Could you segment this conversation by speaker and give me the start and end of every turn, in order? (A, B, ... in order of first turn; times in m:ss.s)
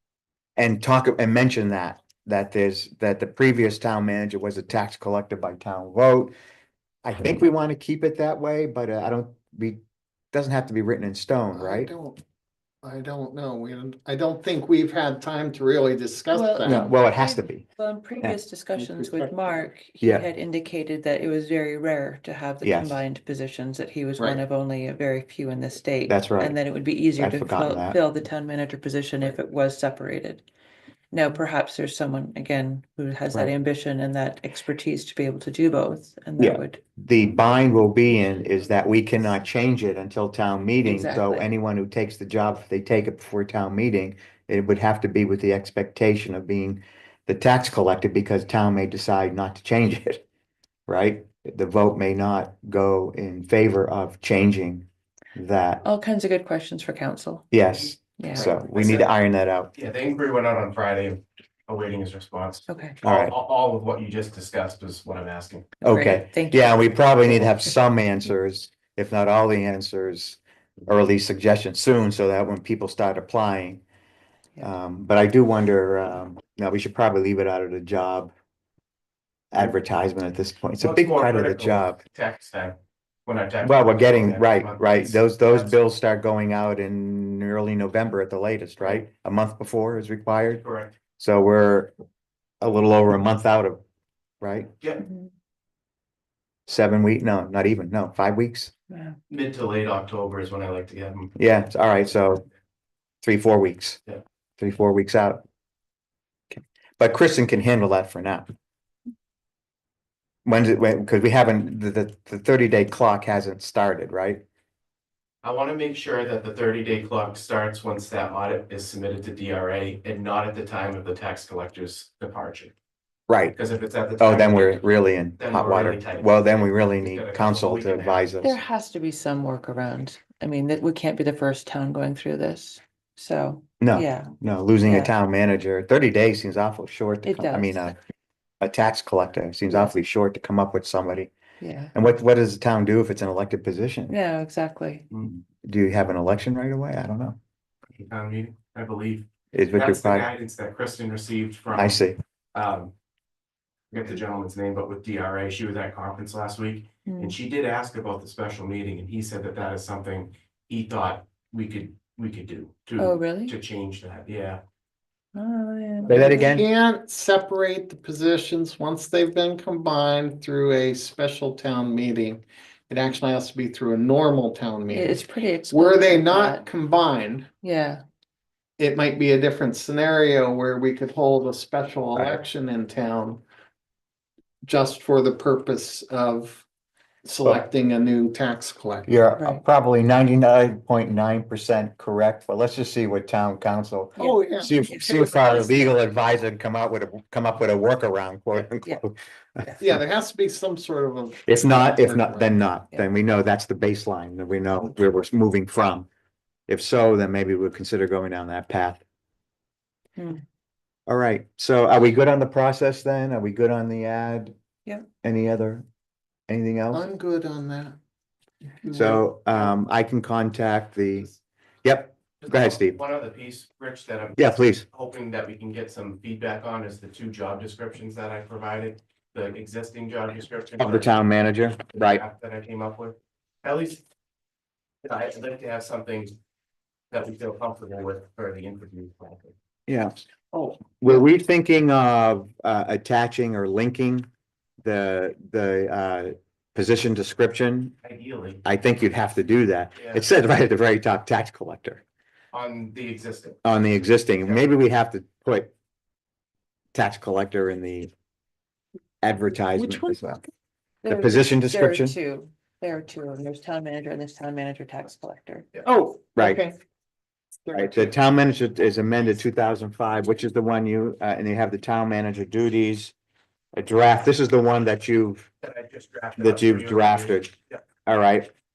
0:00.6-0:06.3 A
0:07.0-0:09.8 A
0:10.3-0:11.9 A
0:11.5-0:12.2 B
0:12.8-0:16.9 B
0:16.3-0:30.4 C
0:16.6-0:17.6 A
0:18.8-0:19.4 B
0:20.0-0:20.3 A
0:22.6-0:23.0 A
0:26.1-0:28.0 A
0:31.1-0:36.8 C
0:36.4-0:50.2 A
0:40.8-0:41.5 C
0:50.9-0:55.8 A
0:55.8-0:57.5 C
0:57.5-0:59.7 A
0:58.2-0:58.5 C
0:58.3-0:59.1 D
0:59.7-1:05.8 D
1:02.7-1:03.0 C
1:03.0-1:03.3 A
1:05.8-1:07.7 C
1:05.8-1:13.8 A
1:14.6-1:18.3 A
1:19.5-1:22.0 A
1:20.8-1:25.8 D
1:23.6-1:30.6 A
1:30.6-1:30.9 D
1:31.2-1:31.9 A
1:32.6-1:33.8 A
1:34.4-1:34.7 A
1:35.0-1:35.3 C
1:36.7-1:38.7 A
1:38.9-1:39.2 C
1:39.3-1:41.3 D
1:41.4-1:42.4 A
1:43.2-1:44.0 A
1:44.6-1:45.4 A
1:46.5-1:48.5 A
1:50.4-1:54.4 A
1:55.4-2:02.7 D
2:03.3-2:03.6 A
2:03.5-2:04.8 D
2:04.2-2:08.6 A
2:05.4-2:08.3 D
2:08.4-2:15.1 C
2:13.8-2:18.0 A
2:17.2-2:18.0 C
2:18.6-2:21.3 A
2:21.6-2:21.9 C
2:21.9-2:24.2 A
2:24.1-2:25.1 C
2:25.3-2:27.4 A
2:27.9-2:32.0 D
2:29.5-2:30.3 A
2:31.7-2:32.2 A
2:32.5-2:32.9 D
2:33.9-2:44.6 D
2:37.1-2:37.4 C
2:43.0-2:43.5 C
2:45.3-2:46.6 C
2:46.1-2:46.7 A
2:46.1-2:57.5 B
2:54.9-2:56.6 C
2:57.6-2:58.0 C
2:58.8-3:03.4 B
3:02.1-3:02.4 A
3:04.6-3:06.6 B
3:07.2-3:09.1 B
3:09.1-3:19.8 A
3:09.4-3:09.6 C
3:14.2-3:16.0 C
3:14.2-3:14.7 B
3:19.8-3:22.6 B
3:21.5-3:26.1 A
3:26.7-3:29.0 A
3:30.2-3:30.4 C
3:31.1-3:34.5 A
3:35.2-3:35.8 A
3:36.5-3:37.0 A
3:36.9-3:38.0 B
3:38.8-3:39.2 B
3:38.9-3:41.3 A
3:41.8-3:43.0 A
3:42.4-3:51.2 D
3:44.4-3:44.8 A
3:50.8-3:52.2 A
3:51.9-3:54.0 D
3:55.0-3:56.3 D
3:57.1-3:59.5 D
3:59.9-4:00.1 A
4:00.5-4:01.2 B
4:00.8-4:04.3 A
4:04.8-4:07.9 A
4:08.0-4:08.6 D
4:08.6-4:12.0 A
4:10.0-4:10.3 D
4:12.5-4:13.6 D
4:13.6-4:15.7 A
4:16.9-4:18.1 A
4:19.2-4:20.4 A
4:21.0-4:25.7 C
4:21.1-4:22.2 A
4:25.8-4:26.8 B
4:26.3-4:26.6 A
4:27.6-4:28.1 B
4:27.7-4:33.1 A
4:33.8-4:35.5 A
4:35.6-4:37.8 D
4:36.4-4:37.5 A
4:38.0-4:38.5 A